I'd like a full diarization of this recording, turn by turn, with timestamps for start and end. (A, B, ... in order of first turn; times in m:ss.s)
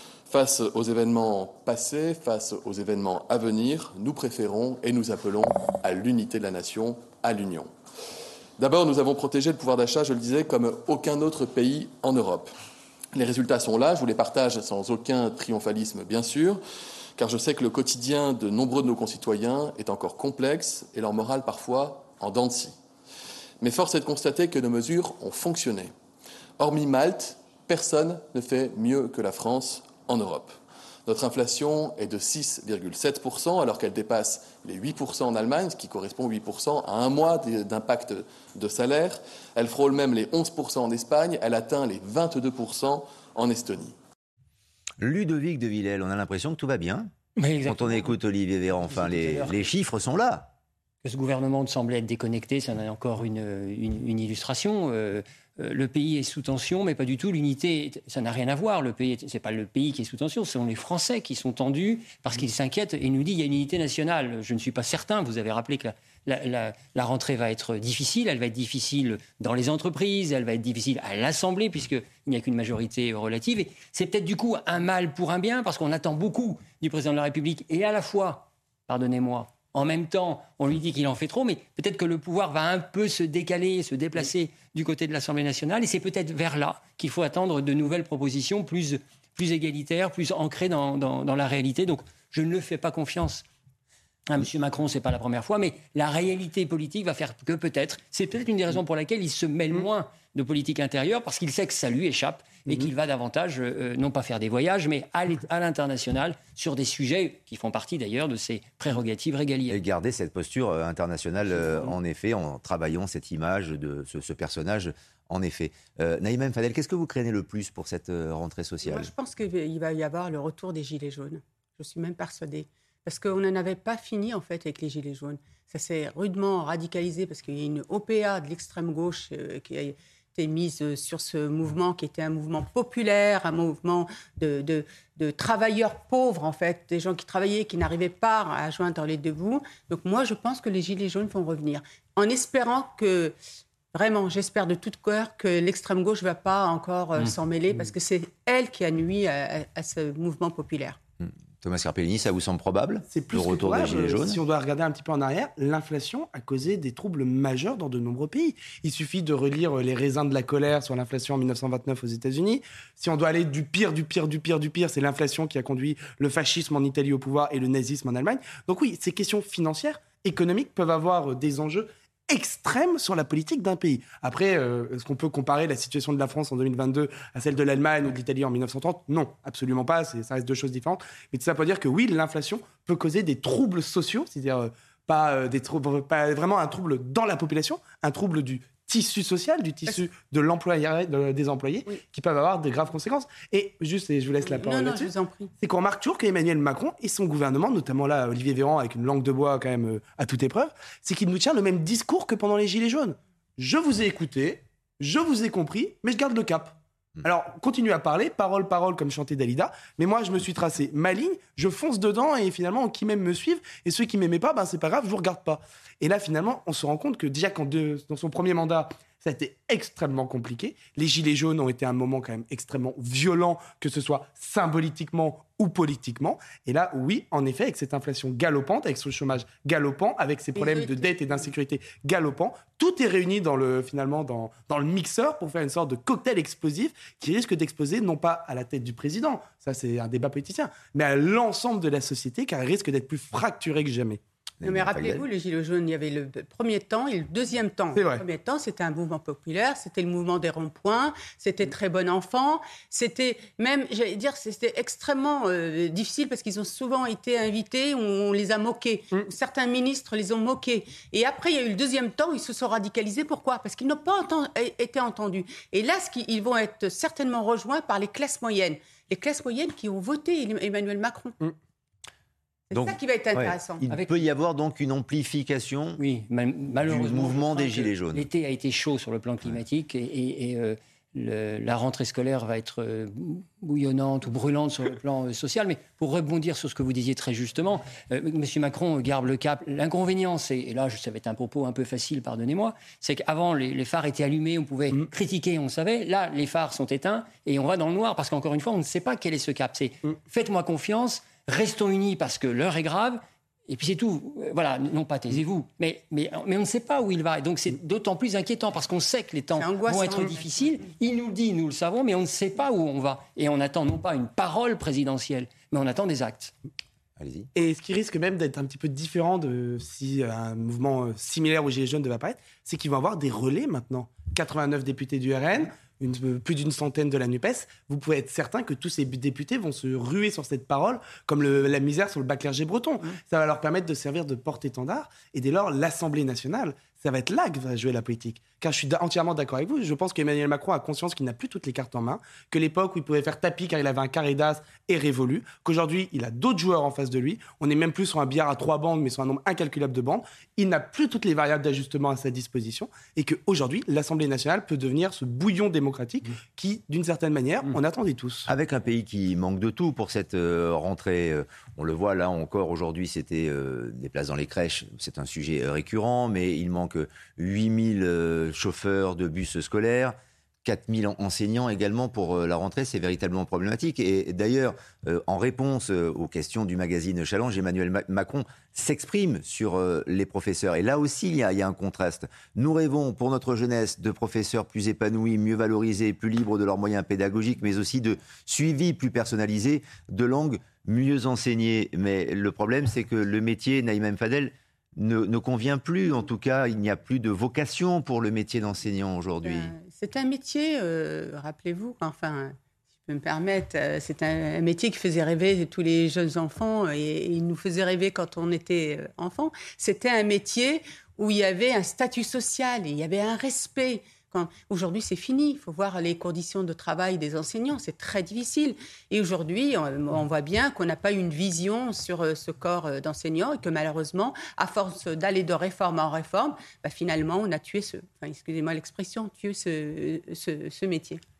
0:00.3-0:07.7 A
0:08.6-0:12.5 A
0:13.1-0:16.6 A
0:17.2-0:22.8 A
0:23.6-0:25.9 A
0:26.6-0:43.9 A
0:45.0-0:47.1 B
0:47.4-0:48.1 C
0:47.7-0:50.5 B
0:48.9-0:49.6 C
0:51.0-1:33.4 C
1:34.3-1:49.8 C
1:49.7-1:59.1 B
1:58.8-2:23.3 D
2:23.9-2:31.0 D
2:31.2-2:34.4 B
2:33.1-4:04.2 E
3:14.4-3:15.5 D
3:50.6-3:51.5 D
4:04.6-4:05.2 B
4:04.6-4:31.4 D
4:07.9-4:08.2 E
4:32.7-4:33.8 D
4:32.7-4:36.0 B
4:36.0-5:16.5 C
4:36.8-4:38.2 B
5:09.6-5:10.4 D
5:17.2-5:17.5 B
5:17.5-5:58.5 E
5:58.5-6:39.7 B
6:39.4-7:11.2 D